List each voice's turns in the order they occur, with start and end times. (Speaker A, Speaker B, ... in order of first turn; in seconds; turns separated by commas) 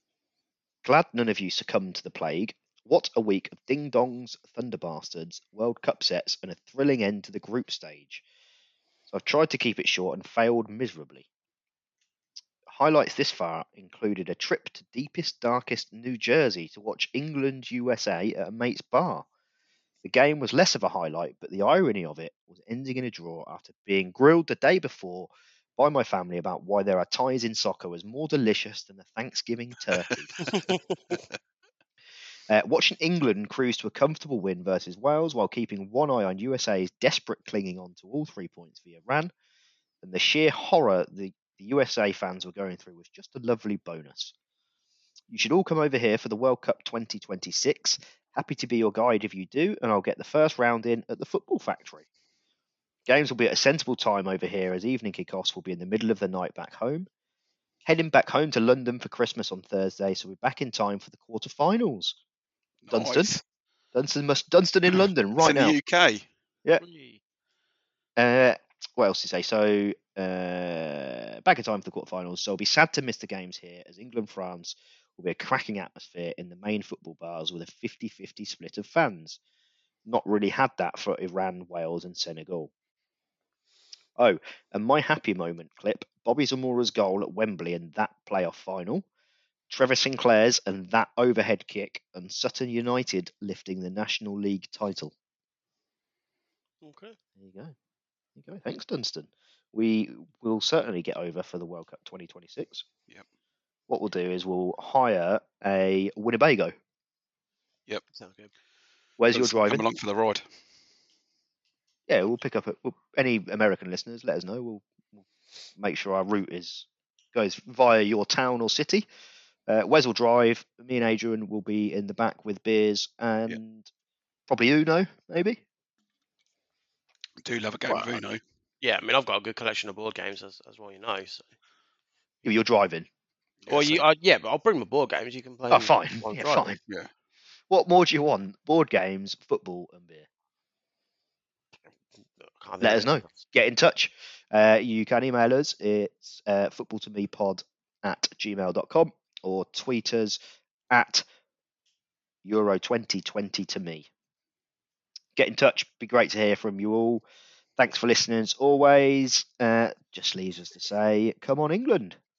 Speaker A: 0.8-8.2, Speaker A: 9.1-11.2, Speaker A: 12.7-19.2, Speaker A: 20.0-30.2, Speaker B: 29.9-30.2, Speaker C: 30.4-31.0, Speaker A: 32.5-39.3, Speaker A: 40.0-44.3, Speaker A: 45.3-52.0, Speaker A: 53.1-57.1, Speaker A: 57.8-62.1, Speaker B: 62.8-63.4, Speaker A: 62.9-63.3, Speaker A: 63.9-65.8, Speaker B: 64.9-66.2, Speaker C: 66.8-67.2, Speaker A: 68.2-79.4, Speaker A: 80.0-82.7, Speaker A: 84.2-89.0, Speaker A: 89.7-95.1, Speaker C: 96.8-97.2, Speaker A: 97.4-97.7, Speaker A: 98.4-102.8, Speaker A: 103.9-106.7, Speaker C: 108.1-108.5, Speaker A: 109.2-109.8, Speaker B: 109.3-110.4, Speaker A: 112.1-115.2, Speaker A: 115.8-119.1, Speaker A: 119.7-123.9, Speaker A: 124.5-125.6, Speaker B: 127.4-128.4, Speaker C: 127.8-128.2, Speaker C: 128.8-131.5, Speaker A: 132.4-133.1, Speaker B: 133.6-134.0, Speaker C: 133.7-136.7, Speaker A: 135.7-136.8, Speaker A: 137.7-140.2, Speaker C: 142.4-143.4, Speaker A: 142.8-150.4, Speaker A: 150.9-151.2, Speaker A: 152.4-154.1, Speaker A: 155.3-157.2, Speaker A: 157.8-162.2